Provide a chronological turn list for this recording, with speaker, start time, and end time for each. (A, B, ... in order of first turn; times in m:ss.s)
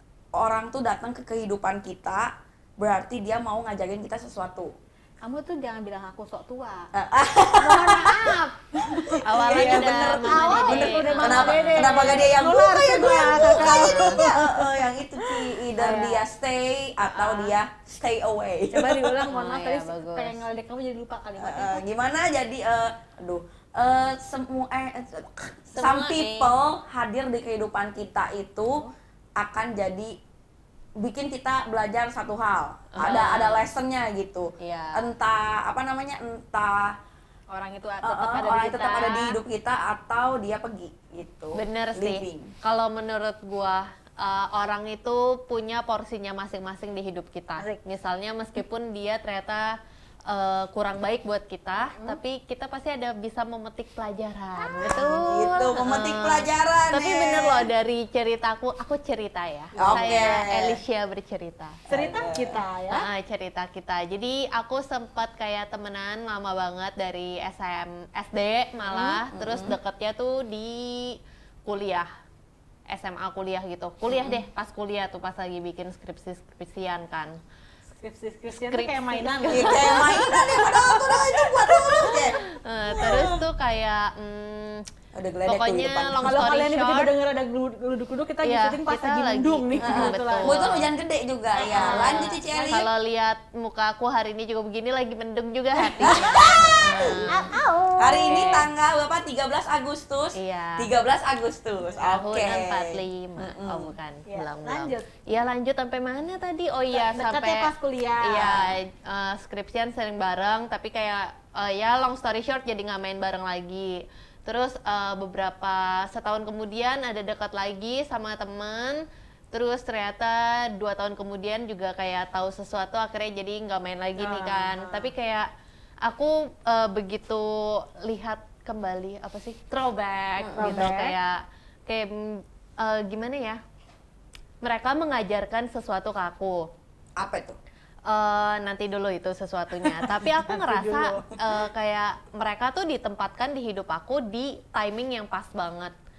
0:00.4-0:04.7 A
0:05.2-0:06.9 B
0:06.9-0:08.4 A
0:07.6-0:16.2 B
0:08.9-0:19.3 A
0:09.2-0:12.3 C
0:13.2-0:14.2 C
0:17.1-0:17.5 B
0:18.7-0:21.8 B
0:19.3-0:20.4 C
0:21.4-0:28.8 A
0:25.8-0:26.6 C
0:29.4-0:30.1 A
0:31.0-0:37.0 A
0:33.0-0:33.7 C
0:34.6-0:35.1 C
0:37.5-0:38.9 B
0:38.0-0:42.5 A
0:38.5-0:39.4 C
0:41.5-0:49.7 C
0:50.3-1:01.8 C
0:51.7-0:52.2 B
0:54.8-0:57.7 A
0:59.7-1:00.3 B
0:59.8-1:00.8 A
1:01.9-1:02.6 A
1:01.9-1:03.0 B
1:02.9-1:12.1 C
1:08.9-1:09.8 A
1:12.9-1:17.3 C
1:14.1-1:14.4 A
1:17.9-1:21.9 B
1:18.5-1:20.3 C
1:19.5-1:22.4 A
1:22.0-1:24.8 C
1:22.9-1:23.4 A
1:25.1-1:26.5 A
1:25.5-1:27.1 C
1:26.2-1:30.7 B
1:28.4-1:30.9 C
1:29.8-1:32.9 A
1:31.6-1:32.9 B
1:31.6-1:37.5 C
1:36.0-1:43.9 A
1:37.3-1:38.5 B
1:38.2-1:38.7 C
1:40.3-1:40.9 C
1:42.0-1:47.7 C
1:44.3-1:45.1 B
1:46.9-1:48.8 B
1:48.2-2:05.5 C
2:04.2-2:05.1 B
2:06.0-2:11.4 C
2:10.4-2:10.9 A
2:10.6-2:11.1 B
2:11.9-2:13.6 C
2:14.6-2:16.7 C
2:17.2-2:17.6 A
2:18.1-2:25.9 C
2:20.5-2:21.4 B